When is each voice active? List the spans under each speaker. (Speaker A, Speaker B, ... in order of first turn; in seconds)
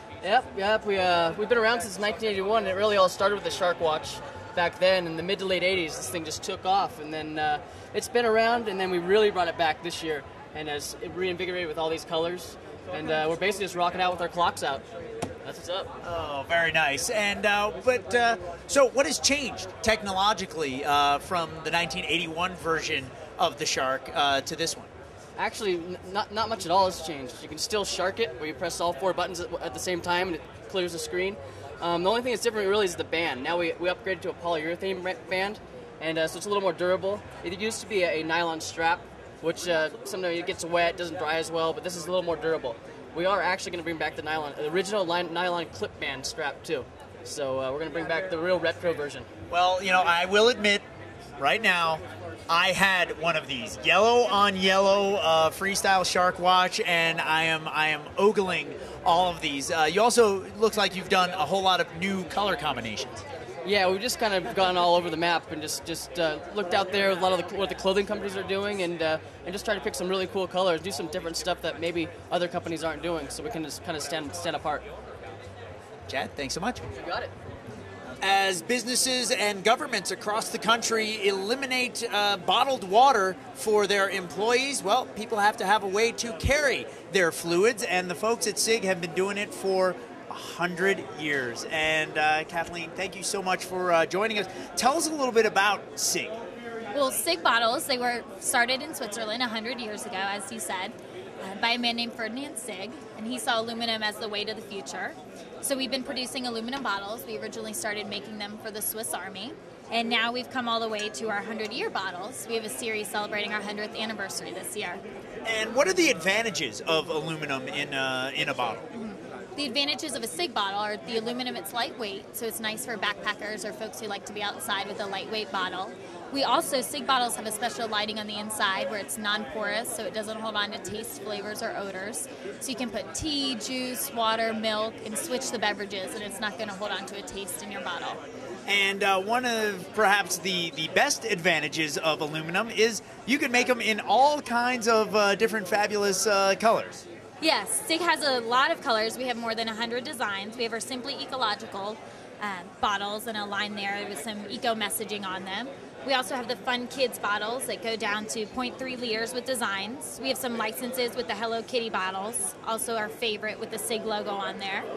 Speaker A: 0.2-14.8, 15.4-15.9, 25.4-49.3, 63.6-74.8, 77.0-77.3
Speaker B: 16.0-24.9, 49.5-50.8, 51.4-63.2, 76.1-76.8, 78.2-96.4, 115.4-118.8, 138.7-147.0
Speaker C: 96.9-115.0, 118.9-138.2, 147.4-164.9